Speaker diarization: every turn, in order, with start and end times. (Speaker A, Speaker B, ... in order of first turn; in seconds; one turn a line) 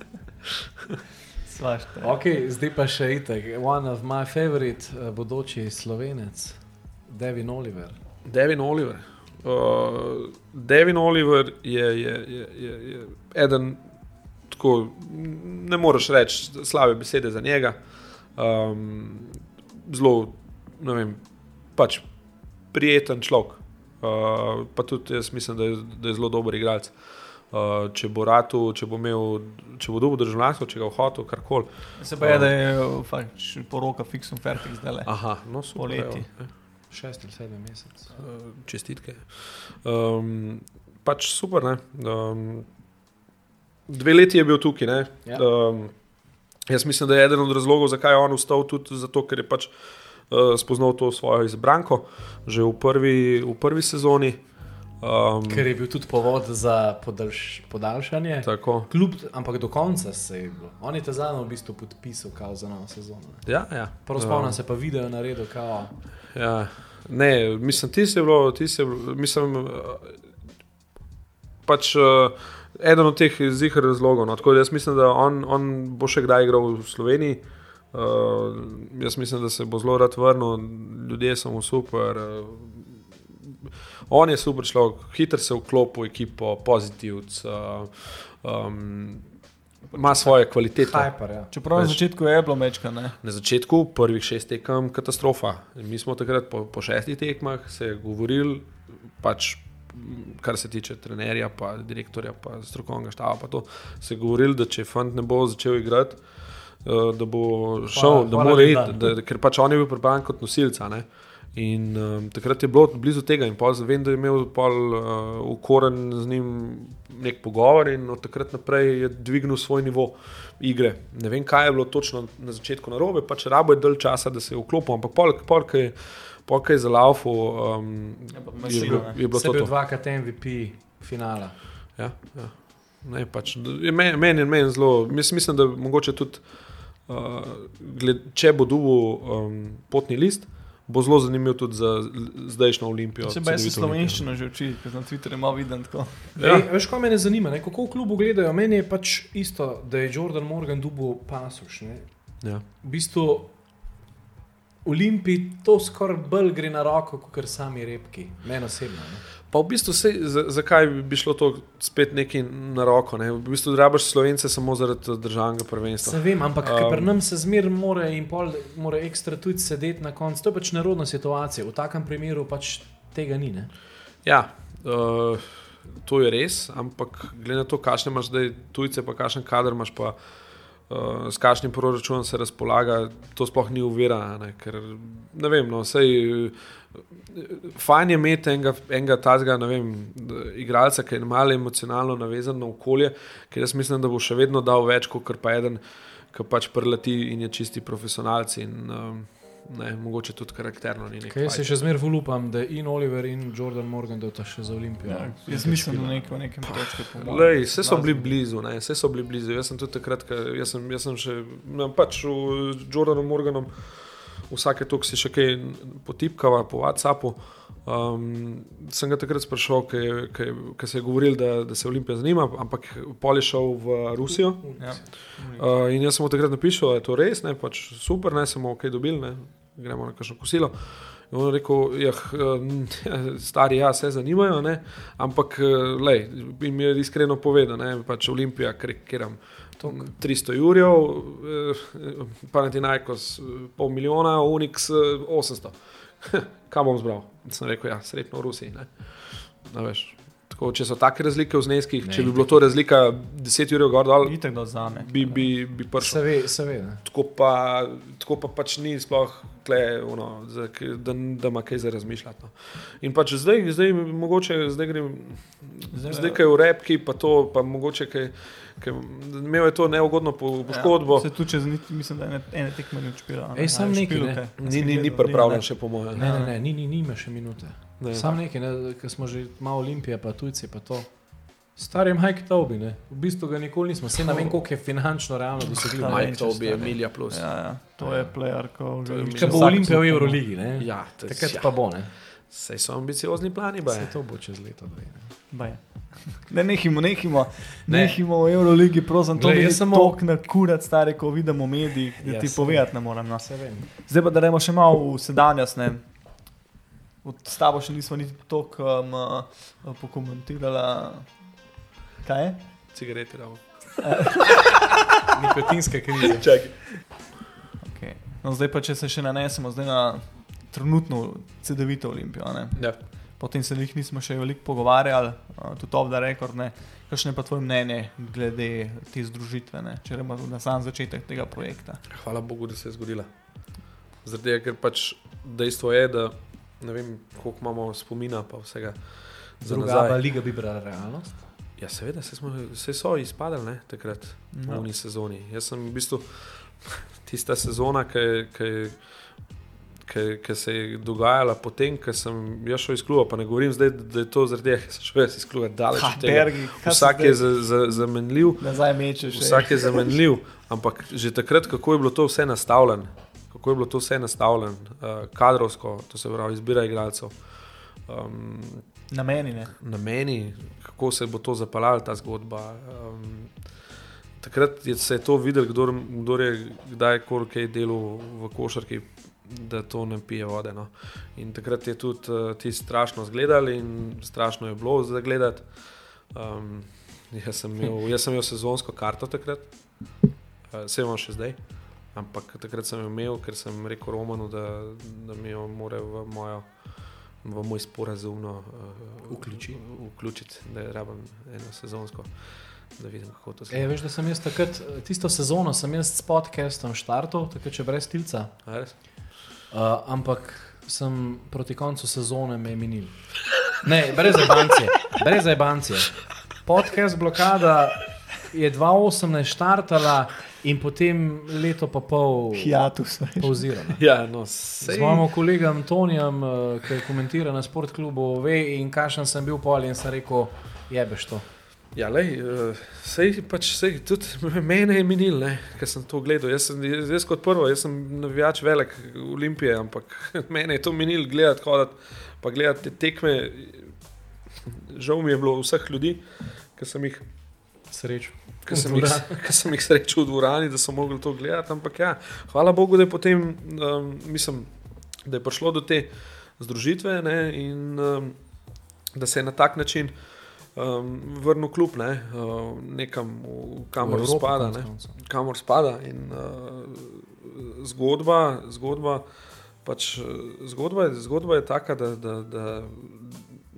Speaker A: 0.5-1.0
Speaker B: 1.5-2.1
Speaker C: 2.0-8.0
Speaker A: 8.2-13.8
Speaker A: 14.5-17.8
Speaker A: 18.4-22.1
Speaker A: 22.7-27.0
Speaker A: 27.5-32.5
Speaker B: 32.0-36.3
Speaker A: 35.0-36.5
Speaker C: 36.9-38.1
Speaker A: 38.1-42.7
Speaker A: 43.9-45.9
Speaker A: 46.7-49.7
Speaker A: 50.3-54.4
Speaker A: 55.0-55.7
Speaker C: 55.5-63.5
Speaker A: 58.4-58.9
Speaker A: 63.5-64.6
Speaker C: 64.0-66.0
Speaker A: 66.3-70.2
Speaker A: 71.7-83.0
Speaker A: 83.7-89.2
Speaker A: 89.9-91.1
Speaker C: 90.8-91.5
Speaker B: 91.5-93.2
Speaker A: 91.7-92.0
Speaker A: 93.2-106.2
Speaker A: 106.8-129.7
Speaker C: 107.9-109.2
Speaker B: 128.3-129.2
Speaker C: 128.7-131.6
Speaker A: 132.0-136.5
Speaker A: 137.0-144.3
Speaker B: 143.2-146.3
Speaker A: 146.4-146.7
Speaker C: 146.4-152.1
Speaker C: 152.8-153.6
Speaker C: 154.8-159.2
Speaker A: 159.5-167.1
Speaker C: 166.0-173.7
Speaker A: 174.2-180.2
Speaker A: 180.9-201.8
Speaker C: 201.3-206.4
Speaker B: 205.1-208.3
Speaker A: 206.6-256.3
Speaker C: 224.6-225.0
Speaker B: 224.8-225.7
Speaker C: 252.0-252.5
Speaker B: 254.2-255.4
Speaker C: 256.0-257.0
Speaker A: 257.0-271.3
Speaker B: 265.9-266.4
Speaker B: 270.7-276.5
Speaker C: 273.6-274.4
Speaker A: 274.6-276.3
Speaker C: 276.2-287.0
Speaker A: 278.0-278.4
Speaker B: 285.8-290.4
Speaker A: 286.0-287.6
Speaker C: 288.0-288.3
Speaker A: 289.1-290.0
Speaker C: 289.3-292.1
Speaker A: 290.8-294.2
Speaker C: 293.9-295.3
Speaker B: 295.5-306.1
Speaker C: 297.9-298.2
Speaker C: 299.4-300.2
Speaker C: 302.2-303.9
Speaker B: 307.2-311.5
Speaker B: 312.2-312.6
Speaker A: 312.9-314.0
Speaker B: 314.0-314.7
Speaker C: 315.3-316.5
Speaker A: 316.4-316.8
Speaker B: 317.8-332.0
Speaker A: 332.1-333.3
Speaker A: 334.2-340.2
Speaker C: 339.6-341.4
Speaker A: 341.8-349.0
Speaker B: 344.5-344.9
Speaker A: 350.1-358.7
Speaker B: 355.9-357.5
Speaker B: 358.6-360.1
Speaker A: 359.3-367.4
Speaker A: 368.1-368.9
Speaker B: 369.1-369.7
Speaker A: 369.8-373.5
Speaker A: 374.4-385.7
Speaker A: 386.3-389.7
Speaker A: 390.7-391.6
Speaker A: 392.1-396.8
Speaker A: 397.4-402.4
Speaker C: 399.3-399.8
Speaker A: 402.9-403.9
Speaker C: 403.7-408.5
Speaker A: 408.6-409.0
Speaker C: 409.7-422.8
Speaker B: 422.6-423.7
Speaker C: 423.4-424.0
Speaker A: 424.0-425.3
Speaker C: 424.8-431.5
Speaker A: 431.9-443.9
Speaker A: 444.6-447.2
Speaker C: 447.9-449.4
Speaker A: 448.7-454.7
Speaker A: 455.2-458.4
Speaker A: 459.1-460.2
Speaker A: 460.8-469.3
Speaker C: 464.0-465.2
Speaker A: 469.8-473.5